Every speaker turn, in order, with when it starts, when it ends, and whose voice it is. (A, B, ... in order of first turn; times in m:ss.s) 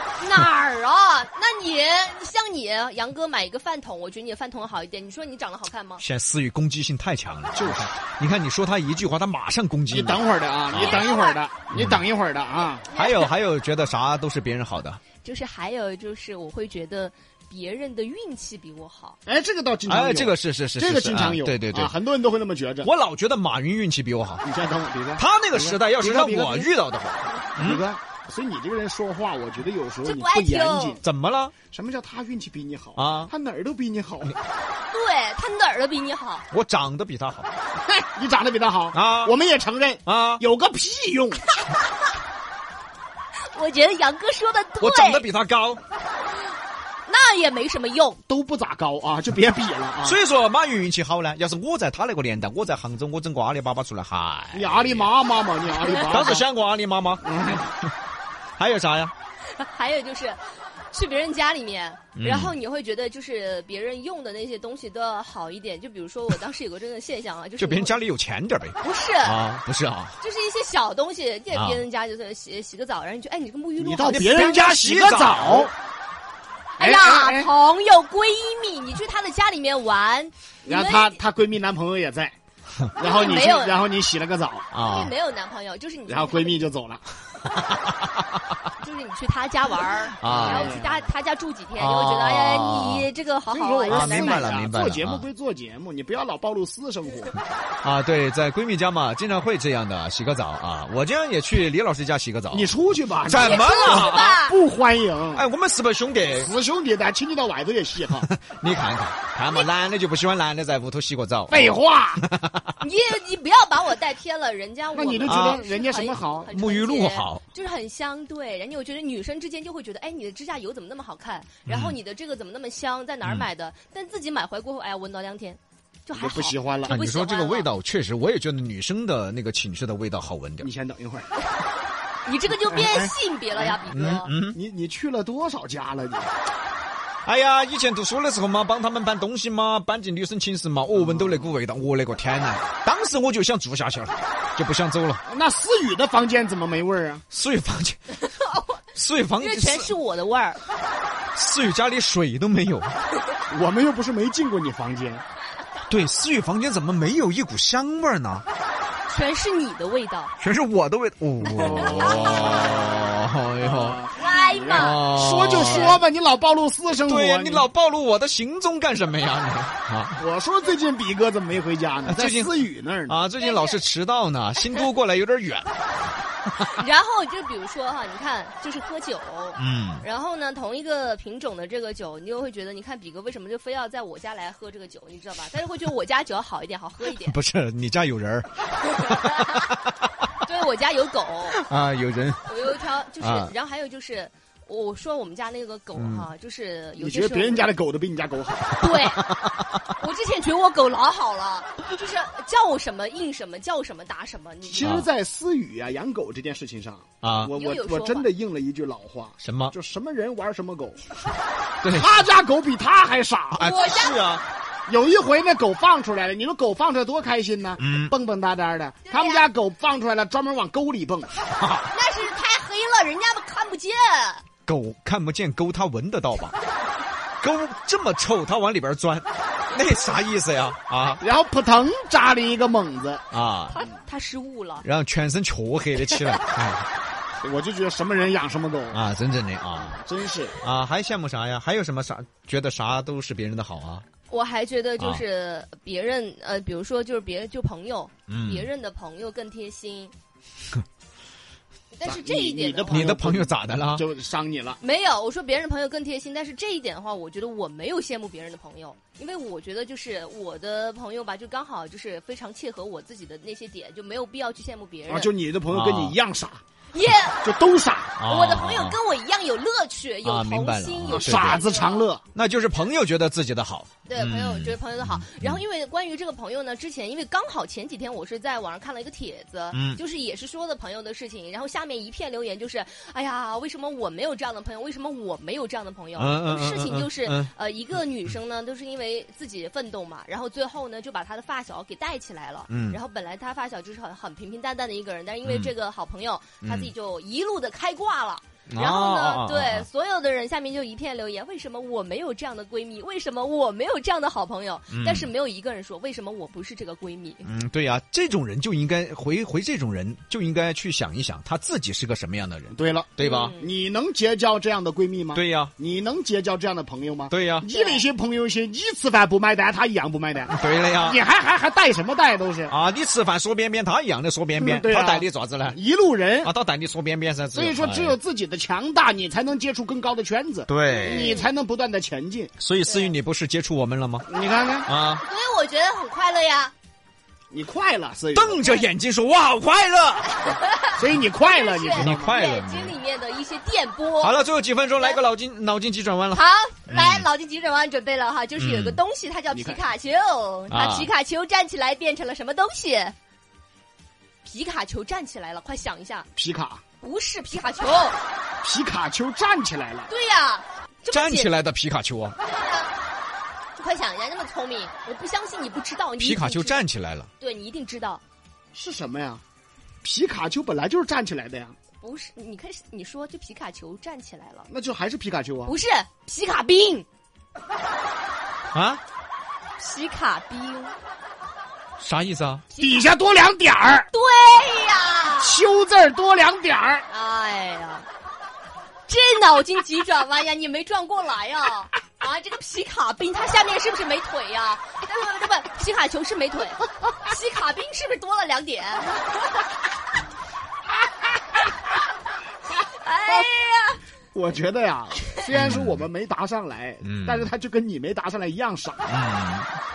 0:00.2-0:06.0 A
0:06.0-0:11.0 B
0:07.5-0:07.9 C
0:09.9-0:12.9 C
0:10.8-0:11.4 A
0:11.7-0:12.0 B
0:12.8-0:13.3 A
0:12.9-0:15.0 B
0:15.2-0:19.2 A
0:19.2-0:22.9 C
0:19.8-0:21.9 B
0:22.8-0:24.4 B
0:24.4-0:26.7 C
0:25.2-0:27.8 B
0:27.6-0:31.0 C
0:30.0-0:31.0 A
0:31.0-0:31.5 B
0:31.7-0:34.3 C
0:33.0-0:33.3 B
0:34.9-0:36.4 A
0:36.5-0:37.5 B
0:37.8-0:41.4 C
0:38.9-0:39.3 B
0:40.0-0:40.4 B
0:43.5-0:45.2 A
0:44.8-0:45.8 B
0:47.1-0:48.2 A
0:48.3-0:50.2 C
0:50.0-0:55.1 B
0:54.5-0:56.5 C
0:55.9-0:57.2 B
0:57.2-0:57.7 C
0:58.6-0:59.1 B
0:59.5-1:00.4 A
1:00.9-1:08.0 A
1:02.1-1:02.5 B
1:07.6-1:10.1 B
1:08.8-1:09.4 A
1:10.2-1:14.7 A
1:11.5-1:11.8 B
1:13.8-1:15.7 C
1:14.0-1:15.7 B
1:16.8-1:21.2 A
1:16.8-1:17.5 C
1:20.6-1:22.4 C
1:22.9-1:24.7 C
1:23.0-1:23.8 A
1:24.7-1:25.1 B
1:24.8-1:26.6 A
1:26.1-1:27.0 C
1:27.5-1:28.2 B
1:28.8-1:34.7 A
1:30.2-1:30.7 B
1:30.3-1:31.0 C
1:31.8-1:33.1 B
1:33.5-1:37.4 C
1:33.9-1:35.2 B
1:37.8-1:42.7 B
1:42.5-1:45.5 C
1:43.2-1:44.3 B
1:43.3-1:44.6 A
1:45.4-1:46.5 B
1:46.3-1:48.3 C
1:48.1-1:52.7 B
1:51.5-1:52.2 C
1:52.8-2:07.7 A
1:54.9-1:56.5 C
1:55.3-1:55.6 B
1:56.5-1:57.4 B
2:01.6-2:02.0 B
2:06.1-2:06.9 C
2:06.9-2:10.7 B
2:10.6-2:11.3 C
2:12.2-2:14.3 A
2:12.7-2:13.7 C
2:13.9-2:14.6 B
2:14.4-2:16.3 C
2:17.2-2:25.2 B
2:20.9-2:21.5 C
2:25.2-2:27.2 C
2:27.3-2:28.0 B
2:28.3-2:28.7 A
2:28.9-2:29.9 B
2:29.4-2:30.6 A
2:31.3-2:32.9 B
2:33.5-2:35.2 C
2:35.9-2:38.4 B
2:39.1-2:40.3 A
2:40.4-2:44.0 B
2:41.4-2:42.8 C
2:41.8-2:42.7 A
2:43.6-2:47.7 C
2:44.1-2:46.0 A
2:44.7-2:46.0 B
2:47.0-2:50.2 B
2:50.2-2:53.2 C
2:52.1-2:52.5 B
2:53.1-2:55.7 B
2:53.4-2:53.8 A
2:56.6-3:07.4 A
2:59.6-3:00.0 B
3:07.2-3:10.1 B
3:08.8-3:09.6 A
3:10.4-3:11.6 A
3:11.5-3:12.5 B
3:12.4-3:17.7 A
3:13.2-3:13.5 B
3:16.0-3:16.2 B
3:17.0-3:18.7 C
3:18.8-3:19.4 A
3:18.8-3:19.7 B
3:19.9-3:25.0 A
3:24.6-3:31.0 C
3:24.8-3:25.0 B
3:27.2-3:27.5 B
3:27.5-3:28.3 A
3:29.4-3:29.7 B
3:31.8-3:32.2 B
3:31.9-3:33.7 C
3:33.5-3:34.4 B
3:33.6-3:34.4 A
3:34.9-3:41.3 C
3:37.8-3:38.1 B
3:39.0-3:39.4 A
3:41.6-3:41.9 B
3:41.9-3:44.4 A
3:44.6-3:46.6 B
3:47.4-3:51.2 B
3:51.2-3:53.2 C
3:53.3-3:53.8 B
3:53.7-3:54.8 A
3:54.8-3:56.9 B
3:57.4-3:59.0 C
3:58.9-4:00.0 B
3:59.8-4:00.6 C
4:00.6-4:04.0 B
4:04.3-4:10.1 A
4:08.3-4:08.7 B
4:11.9-4:13.2 A
4:12.0-4:14.8 C
4:12.9-4:14.0 B
4:14.8-4:25.3 A
4:25.1-4:26.6 C
4:25.7-4:26.1 B
4:26.9-4:27.5 A
4:27.4-4:28.2 C
4:28.2-4:29.0 B
4:28.2-4:32.1 A
4:30.2-4:31.6 B
4:31.1-4:32.2 C
4:32.3-4:35.6 B
4:34.1-5:07.5 A
4:39.7-4:40.0 B
4:46.2-4:47.5 B
4:52.7-4:53.0 B
4:55.4-4:55.7 B
4:56.6-4:56.9 B
4:58.7-4:59.8 B
5:04.9-5:05.3 B
5:07.4-5:13.6 B
5:12.7-5:22.7 C
5:13.2-5:13.7 A
5:15.3-5:15.7 B
5:17.3-5:17.7 B
5:17.7-5:18.0 A
5:20.5-5:21.2 B
5:22.7-5:25.8 B
5:24.6-5:26.5 C
5:26.4-5:28.2 B
5:27.5-5:32.5 C
5:30.7-5:31.4 B
5:30.9-5:31.5 A
5:32.6-5:34.2 B
5:32.9-5:33.1 A
5:34.3-5:34.9 C
5:34.8-5:35.2 B
5:35.2-5:36.7 A
5:37.5-5:38.7 C
5:38.3-5:40.5 B
5:40.5-5:45.2 A
5:40.9-5:42.3 C
5:42.0-5:42.9 B
5:44.2-5:47.3 B
5:46.3-5:53.1 A
5:48.6-5:49.0 B
5:49.5-5:49.8 C
5:50.7-5:51.1 B
5:54.4-5:56.3 A
5:56.3-5:56.8 C
5:57.0-5:58.2 A
5:58.6-6:00.1 C
6:00.1-6:01.5 A
6:01.1-6:02.4 B
6:02.4-6:02.9 A
6:03.8-6:06.8 A
6:06.2-6:07.3 B
6:07.4-6:08.2 A
6:08.7-6:09.4 C
6:10.0-6:11.8 C
6:12.0-6:14.7 A
6:14.7-6:15.8 C
6:15.6-6:17.0 A
6:18.7-6:19.0 B
6:19.8-6:20.9 A
6:22.0-6:22.6 B
6:22.7-6:23.1 A
6:22.8-6:24.1 C
6:24.1-6:25.6 A
6:25.4-6:27.0 C
6:27.1-6:28.1 A
6:29.1-6:39.6 A
6:42.8-6:44.0 A
6:44.3-6:49.0 C
6:45.2-6:45.5 A
6:45.5-6:46.0 B
6:47.0-6:47.5 B
6:49.0-6:49.8 B